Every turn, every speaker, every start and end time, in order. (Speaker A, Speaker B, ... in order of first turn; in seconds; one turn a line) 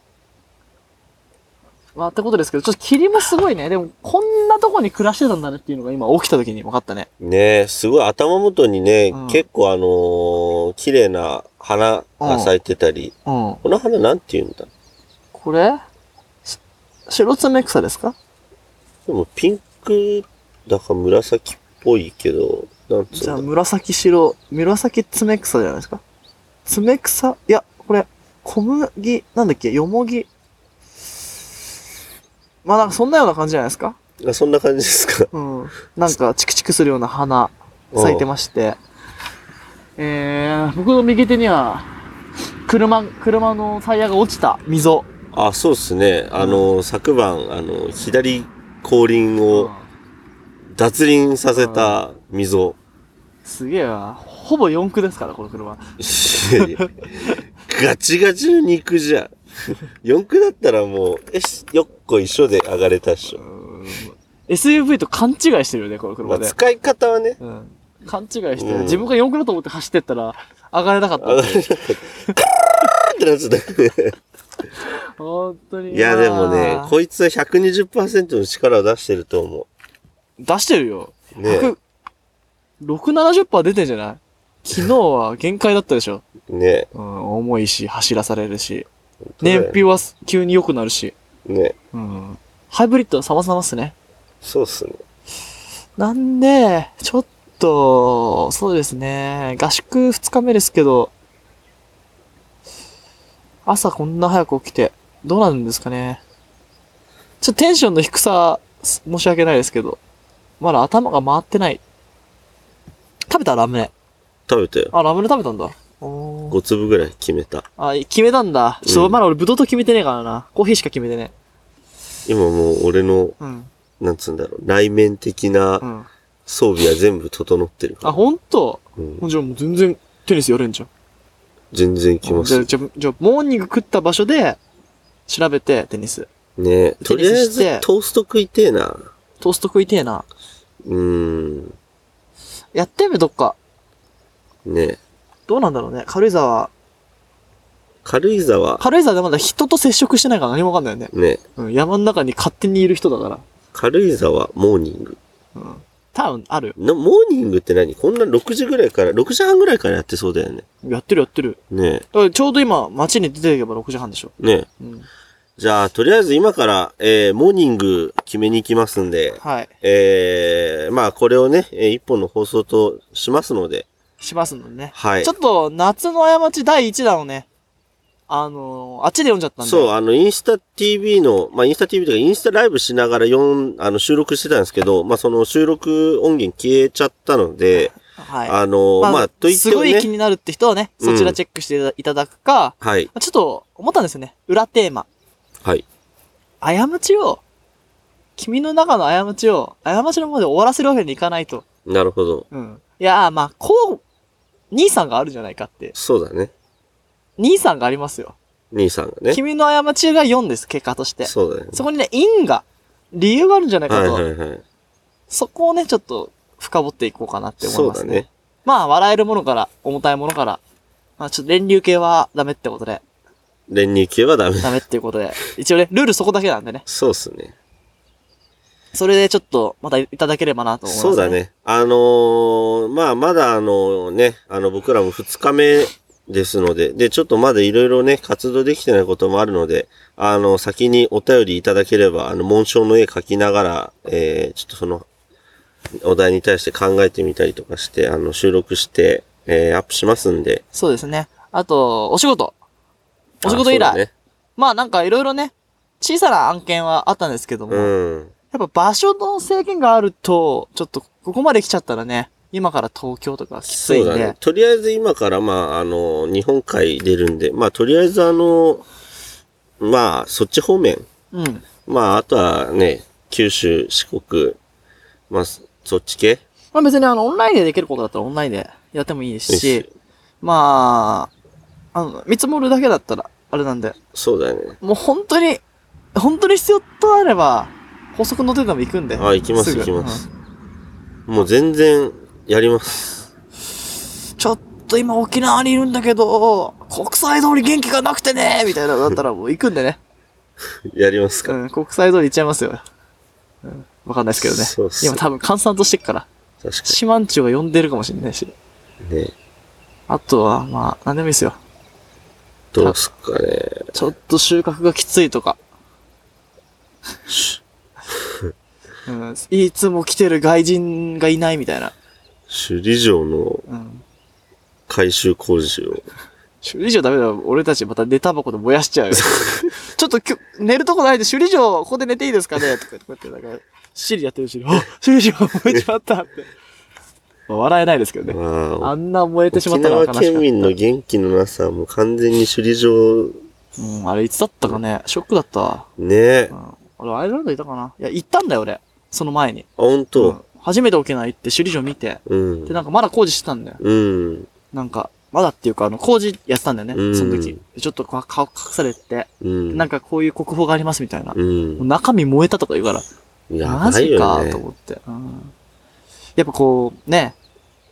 Speaker A: 1.9-7.1
Speaker B: 7.2-14.7
Speaker A: 9.1-9.4
Speaker A: 12.2-12.5
Speaker A: 13.2-13.6
Speaker A: 15.3-15.8
Speaker A: 17.1-18.1
Speaker B: 19.1-23.4
Speaker A: 23.1-26.0
Speaker A: 26.6-30.3
Speaker A: 32.6-34.0
Speaker B: 34.2-35.3
Speaker A: 35.3-38.8
Speaker B: 37.9-38.2
Speaker A: 40.0-42.0
Speaker A: 42.6-45.1
Speaker B: 45.3-49.7
Speaker A: 46.4-46.7
Speaker A: 49.5-49.9
Speaker B: 50.7-52.8
Speaker A: 51.5-52.0
Speaker A: 53.4-57.4
Speaker B: 56.0-63.4
Speaker A: 63.3-66.5
Speaker B: 66.2-67.4
Speaker A: 67.4-71.7
Speaker B: 68.5-69.1
Speaker B: 71.2-74.2
Speaker A: 74.8-76.9
Speaker B: 75.9-79.7
Speaker A: 80.4-81.8
Speaker B: 81.3-81.7
Speaker A: 82.8-86.2
Speaker B: 86.5-86.9
Speaker A: 86.9-88.9
Speaker B: 89.2-89.8
Speaker A: 89.4-91.1
Speaker B: 91.4-91.7
Speaker A: 91.9-93.9
Speaker B: 94.4-95.0
Speaker A: 96.0-101.1
Speaker A: 103.7-106.2
Speaker A: 107.4-110.0
Speaker A: 110.6-111.8
Speaker A: 113.3-113.9
Speaker B: 114.5-114.9
Speaker A: 114.9-116.6
Speaker B: 116.5-117.7
Speaker A: 117.8-121.3
Speaker B: 118.8-119.2
Speaker B: 122.2-123.4
Speaker A: 123.4-123.7
Speaker B: 124.0-125.8
Speaker A: 125.8-126.1
Speaker B: 126.5-128.2
Speaker A: 128.0-130.9
Speaker B: 129.0-129.2
Speaker B: 131.7-132.7
Speaker A: 132.2-134.6
Speaker A: 135.3-136.3
Speaker B: 136.6-139.1
Speaker A: 137.0-137.8
Speaker A: 139.4-140.3
Speaker B: 140.8-141.8
Speaker A: 142.7-143.6
Speaker B: 144.6-145.0
Speaker A: 145.5-146.7
Speaker B: 148.0-148.8
Speaker A: 148.8-153.4
Speaker B: 151.1-151.4
Speaker B: 153.7-155.2
Speaker A: 155.5-156.8
Speaker B: 156.8-160.7
Speaker A: 160.8-161.6
Speaker B: 161.7-162.0
Speaker A: 162.1-165.1
Speaker B: 164.4-164.7
Speaker B: 165.6-173.9
Speaker A: 169.4-169.7
Speaker A: 174.2-177.5
Speaker B: 174.9-175.3
Speaker A: 178.3-179.9
Speaker B: 179.6-187.9
Speaker A: 187.8-195.1
Speaker B: 188.4-190.1
Speaker B: 191.0-191.4
Speaker B: 192.8-193.1
Speaker A: 196.6-197.4
Speaker A: 198.4-201.6
Speaker B: 201.8-202.5
Speaker A: 202.5-204.0
Speaker A: 204.7-205.9
Speaker B: 205.9-206.5
Speaker A: 207.4-208.3
Speaker B: 208.7-209.4
Speaker A: 209.3-214.2
Speaker B: 211.2-211.8
Speaker B: 213.9-214.6
Speaker A: 215.3-220.6
Speaker B: 217.6-218.3
Speaker A: 221.2-223.0
Speaker B: 223.7-224.8
Speaker A: 224.6-226.8
Speaker B: 226.8-227.5
Speaker A: 228.9-231.4
Speaker B: 230.8-245.1
Speaker B: 246.0-250.6
Speaker A: 250.7-252.6
Speaker A: 253.4-254.0
Speaker B: 253.4-254.1
Speaker A: 254.6-257.9
Speaker B: 257.7-258.3
Speaker A: 258.5-264.4
Speaker B: 263.7-268.9
Speaker B: 269.8-271.1
Speaker A: 271.3-271.6
Speaker B: 271.8-274.6
Speaker B: 275.3-276.4
Speaker A: 276.7-279.8
Speaker B: 279.5-279.9
Speaker A: 280.4-281.3
Speaker A: 281.9-283.9
Speaker B: 284.1-284.8
Speaker A: 284.8-285.6
Speaker A: 286.1-290.2
Speaker B: 289.1-290.3
Speaker B: 291.3-293.3
Speaker A: 294.4-300.0
Speaker B: 300.9-301.6
Speaker A: 301.4-302.8
Speaker A: 303.6-306.3
Speaker B: 304.4-305.2
Speaker B: 306.6-307.0
Speaker A: 306.9-308.5
Speaker B: 309.0-309.3
Speaker A: 310.1-311.6
Speaker B: 312.7-313.9
Speaker A: 313.9-315.6
Speaker B: 317.3-317.6
Speaker B: 318.1-318.5
Speaker A: 319.1-321.9
Speaker B: 322.5-323.6
Speaker A: 323.7-324.0
Speaker B: 324.9-326.1
Speaker A: 326.6-336.5
Speaker B: 329.2-329.7
Speaker A: 337.5-340.7
Speaker B: 338.2-338.9
Speaker B: 339.5-343.4
Speaker A: 343.8-345.9
Speaker B: 346.0-346.5
Speaker A: 346.5-353.8
Speaker B: 349.8-350.4
Speaker B: 352.2-352.8
Speaker B: 353.8-354.5
Speaker A: 354.7-363.1
Speaker B: 356.9-357.6
Speaker B: 359.4-359.9
Speaker B: 361.3-361.8
Speaker B: 363.5-364.6
Speaker A: 363.6-365.5
Speaker A: 366.4-367.4